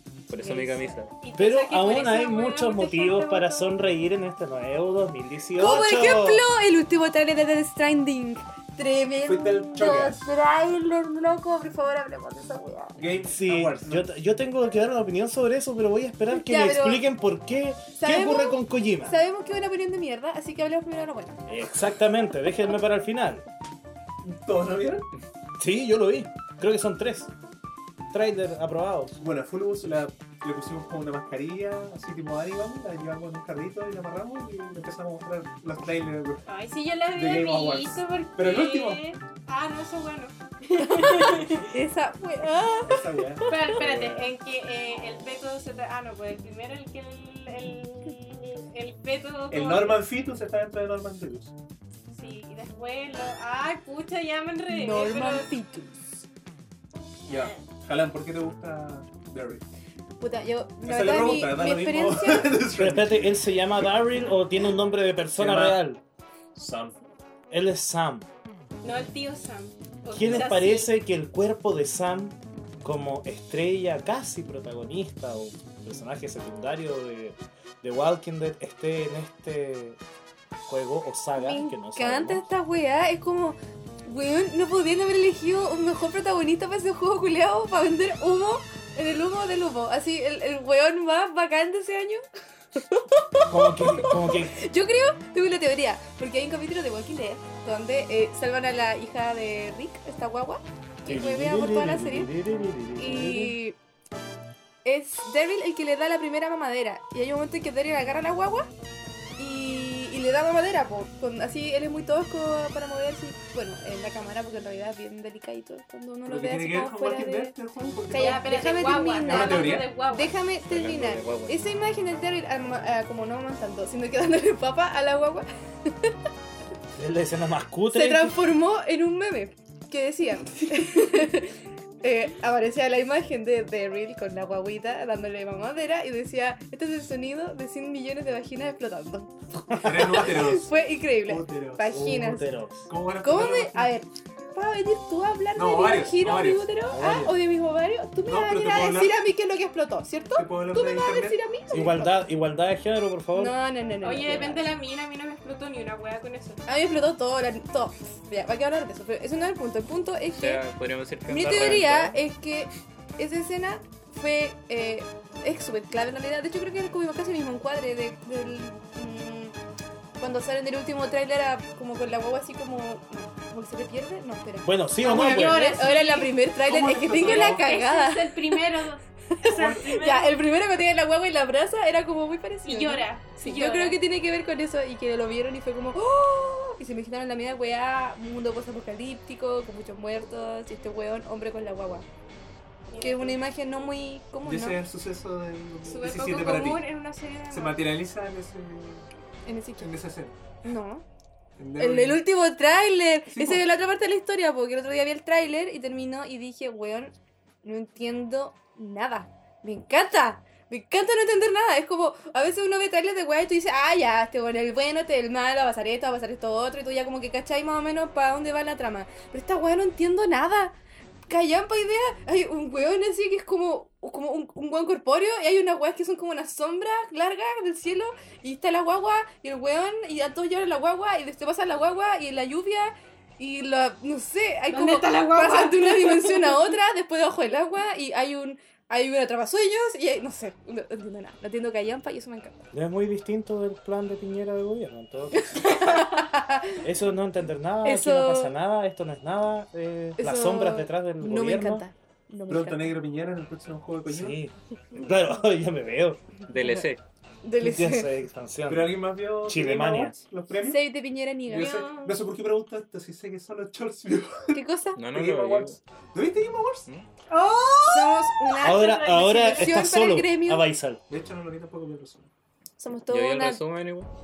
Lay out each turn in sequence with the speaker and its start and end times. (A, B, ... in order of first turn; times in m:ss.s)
0:00.3-0:01.1 A
0:00.3-0:01.0 B
0:01.2-0:03.7 C
0:01.4-0:06.4 D
0:05.6-0:13.0 B
0:09.2-0:10.3 E
0:13.0-0:14.1 E
0:13.3-0:19.2 D
0:16.3-0:17.0 B
0:18.0-0:21.4 B
0:21.5-0:23.4 D
0:24.2-0:25.1 E
0:25.6-0:27.3 D
0:28.1-0:29.1 D
0:29.2-0:36.4 E
0:36.5-0:41.7 C
0:37.2-0:39.0 E
0:40.8-0:43.8 B
0:42.9-0:44.2 E
0:43.5-0:50.0 C
0:49.5-0:51.5 E
0:52.1-0:55.5 C
0:54.7-0:55.9 B
0:57.3-0:57.6 C
0:57.3-0:59.6 E
1:00.2-1:02.6 B
1:00.8-1:03.4 E
1:02.8-1:06.0 D
1:05.4-1:05.8 E
1:06.6-1:07.0 E
1:07.5-1:08.3 D
1:08.8-1:10.9 C
1:10.1-1:20.0 D
1:20.7-1:22.5 D
1:21.4-1:32.2 B
1:32.8-1:42.3 B
1:33.5-1:34.6 D
1:41.0-1:43.6 D
1:43.0-1:43.8 B
1:44.8-1:48.7 B
1:49.4-1:57.6 B
1:56.3-1:58.4 E
1:58.1-2:06.1 B
1:58.1-2:00.4 C
1:59.3-1:59.9 E
2:00.6-2:01.6 A
2:06.9-2:08.4 D
2:07.9-2:19.3 B
2:19.7-2:20.2 D
2:19.8-2:20.7 E
2:20.2-2:22.5 B
2:21.3-2:22.0 E
2:21.9-2:22.9 D
2:22.9-2:24.0 E
2:23.2-2:32.2 B
2:25.6-2:26.7 E
2:26.9-2:27.4 D
2:28.2-2:29.2 E
2:30.4-2:31.4 E
2:31.7-2:33.6 D
2:33.4-2:34.6 B
2:34.0-2:36.6 C
2:34.3-2:34.6 D
2:36.7-2:40.6 B
2:40.3-2:42.2 A
2:41.3-2:49.5 B
2:50.2-2:58.6 B
2:54.6-2:55.8 D
2:55.0-2:56.3 C
2:56.6-2:57.6 E
2:57.2-3:00.4 C
2:59.5-2:59.9 E
2:59.6-3:12.1 B
3:02.6-3:04.0 C
3:12.9-3:13.4 C
3:13.0-3:14.8 B
3:14.4-3:16.8 E
3:15.8-3:17.9 C
3:17.5-3:19.1 E
3:19.5-3:19.9 B
3:19.8-3:20.3 E
3:20.6-3:21.0 B
3:21.6-3:22.2 E
3:21.8-3:40.8 B
3:23.3-3:23.6 E
3:41.3-4:02.7 B
3:54.7-3:56.7 C
4:02.7-4:06.0 D
4:05.4-4:06.8 B
4:06.8-4:11.9 D
4:07.8-4:08.6 B
4:10.2-4:13.0 B
4:12.5-4:14.4 E
4:14.1-4:16.3 D
4:16.5-4:17.0 A
4:17.4-4:18.1 B
4:17.6-4:20.2 D
4:18.7-4:20.9 E
4:20.6-4:21.8 B
4:21.5-4:24.6 E
4:21.5-4:22.2 C
4:24.5-4:25.0 B
4:25.0-4:25.8 A
4:25.1-4:26.9 E
4:27.3-4:29.7 C
4:27.9-4:30.6 B
4:28.6-4:31.0 D
4:31.1-4:32.3 E
4:32.8-4:33.6 B
4:33.1-4:34.1 A